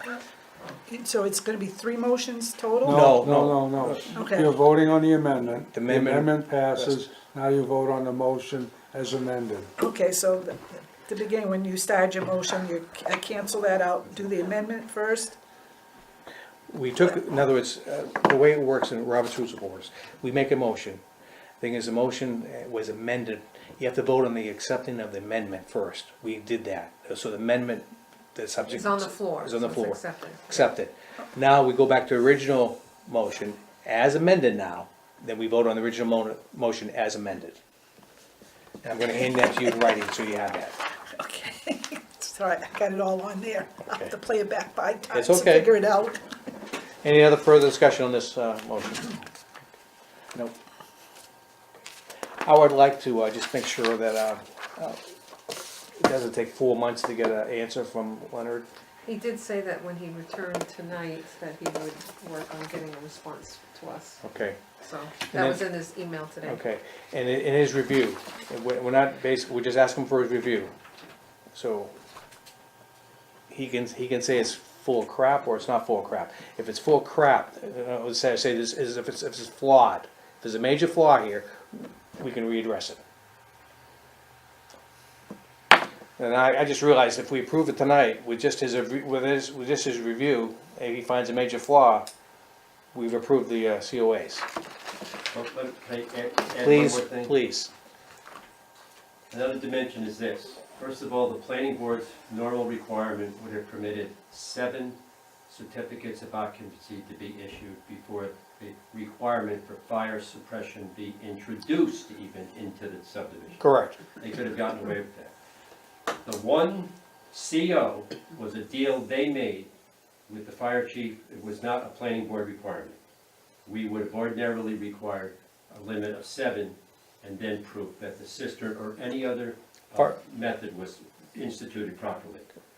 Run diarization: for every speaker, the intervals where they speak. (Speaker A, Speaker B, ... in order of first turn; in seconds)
Speaker A: 0.9-3.1, 4.1-4.5, 9.8-15.4, 41.2-46.2
Speaker B: 2.8-9.7
Speaker C: 2.9-4.1, 5.7-7.0, 16.7-21.0, 21.6-37.6, 38.8-40.8, 45.1-45.7, 47.0-49.2, 52.4-55.0, 56.0-58.7, 64.2-64.6, 65.3-65.7, 66.5-70.7, 71.5-71.9, 73.5-83.0, 86.2-92.1, 92.9-94.5, 96.6-97.7, 113.6-114.0
Speaker D: 28.7-30.7, 59.1-64.2, 64.8-66.6
Speaker E: 95.3-97.3, 99.3-105.0, 105.5-113.6, 114.2-115.3, 116.2-119.7, 120.3-123.0, 123.7-132.5